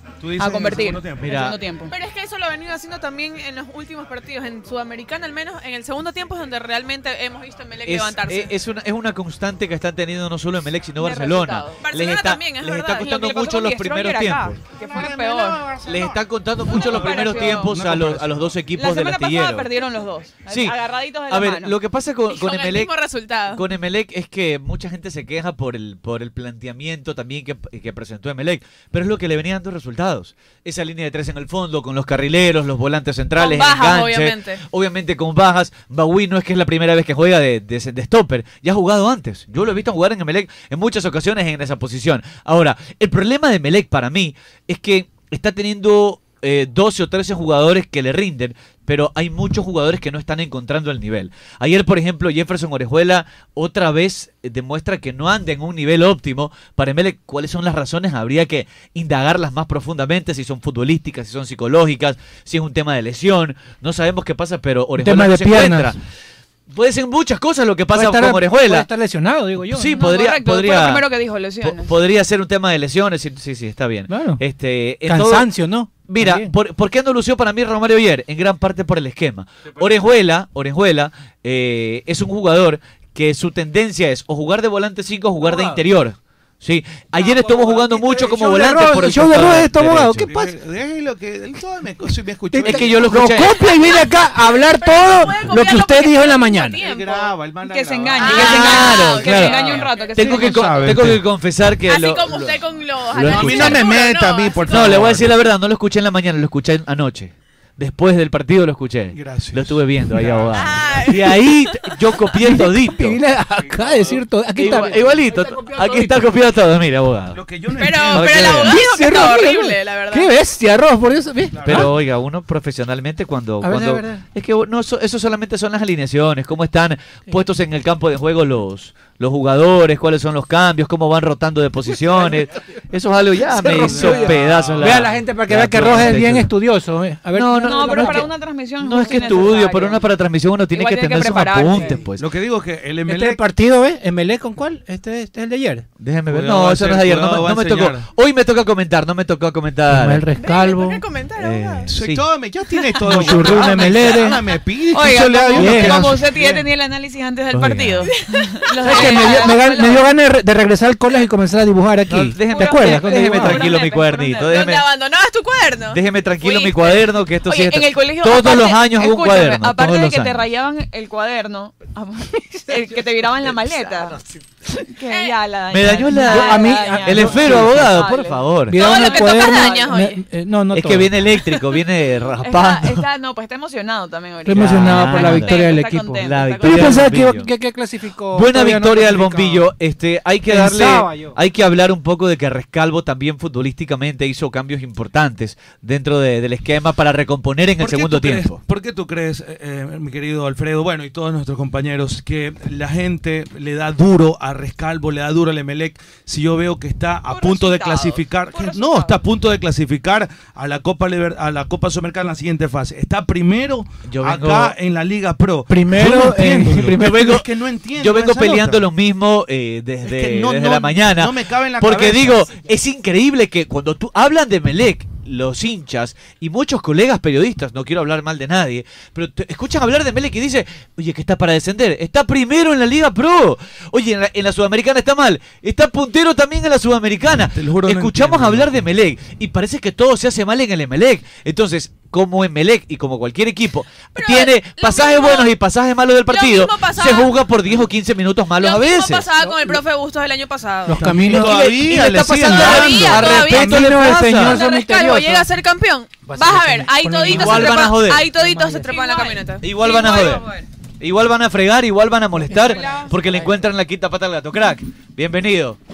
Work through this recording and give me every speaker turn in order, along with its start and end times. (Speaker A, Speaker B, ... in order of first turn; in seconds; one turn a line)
Speaker A: 0.2-1.5
Speaker B: 0.4-1.9
Speaker C: 1.2-1.6
Speaker D: 1.9-8.5
Speaker C: 7.8-14.6
Speaker B: 11.0-11.8
Speaker D: 11.8-13.0
Speaker B: 12.9-15.6
Speaker A: 14.8-18.5
Speaker C: 15.8-19.7
Speaker B: 16.7-17.8
Speaker B: 18.8-21.8
Speaker C: 20.5-22.9
Speaker D: 22.3-23.6
Speaker C: 23.4-66.0
Speaker D: 33.4-34.6
Speaker E: 65.0-65.9
Speaker C: 66.7-68.9
Speaker E: 67.9-70.0
Speaker C: 69.7-71.1
Speaker B: 69.9-71.9
Speaker C: 71.6-90.3
Speaker E: 74.1-74.4
Speaker E: 75.0-76.5
Speaker E: 85.4-85.7
Speaker E: 87.2-90.5
Speaker A: 87.5-89.6
Speaker A: 90.2-93.3
Speaker E: 92.5-96.8
Speaker C: 92.6-93.6
Speaker D: 93.8-97.3
Speaker A: 96.8-101.2
Speaker B: 97.7-100.9
Speaker D: 98.2-99.9
Speaker C: 98.3-104.0
Speaker D: 101.9-104.9
Speaker A: 103.2-105.3
Speaker C: 104.7-113.2
Speaker A: 109.1-111.1
Speaker D: 110.6-111.3
Speaker E: 111.2-116.3
Speaker A: 113.6-114.2
Speaker C: 114.5-117.4
Speaker A: 114.8-115.1
Speaker A: 117.3-118.8
Speaker D: 117.8-120.3
Speaker C: 118.1-118.7
Speaker E: 118.5-121.9
Speaker A: 121.5-121.9
Speaker C: 121.6-136.5
Speaker E: 123.6-124.2
Speaker E: 133.6-138.3
Speaker A: 133.6-135.2
Speaker C: 137.3-142.2
Speaker B: 137.6-140.0
Speaker B: 140.7-142.0
Speaker A: 141.7-143.4
Speaker E: 143.0-145.8
Speaker C: 146.0-150.3
Speaker A: 146.3-148.0
Speaker E: 149.9-151.0
Speaker D: 150.4-151.9
Speaker C: 151.3-152.2
Speaker A: 151.9-156.7
Speaker E: 153.0-154.4
Speaker C: 153.3-153.5
Speaker B: 154.9-160.0
Speaker E: 155.5-156.2
Speaker C: 157.5-158.1
Speaker D: 158.1-159.4
Speaker E: 158.8-163.7
Speaker C: 162.1-164.9
Speaker B: 162.5-164.7
Speaker D: 164.5-166.8
Speaker C: 165.9-170.4
Speaker B: 167.5-174.2
Speaker C: 173.6-173.9
Speaker B: 174.9-179.8
Speaker D: 175.1-175.3
Speaker C: 175.7-178.8
Speaker E: 176.1-178.1
Speaker E: 178.7-181.1
Speaker D: 178.8-180.2
Speaker C: 180.7-183.0
Speaker B: 182.4-187.1
Speaker E: 184.4-189.7
Speaker C: 184.5-187.5
Speaker C: 188.3-198.6
Speaker E: 190.4-191.4
Speaker A: 197.8-218.8
Speaker B: 207.3-209.2
Speaker C: 214.1-214.7
Speaker E: 215.7-217.3
Speaker C: 216.7-249.3
Speaker A: 220.0-222.5
Speaker A: 237.5-238.8
Speaker D: 244.2-245.5
Speaker D: 246.3-247.3
Speaker D: 248.6-251.1
Speaker E: 249.4-249.8
Speaker E: 250.9-255.5
Speaker A: 250.9-253.3
Speaker C: 251.0-254.7
Speaker D: 252.2-253.8
Speaker D: 254.4-259.9
Speaker E: 256.2-258.8
Speaker C: 257.2-258.3
Speaker B: 258.8-260.6
Speaker C: 259.6-260.5
Speaker C: 261.0-265.8
Speaker B: 262.5-263.1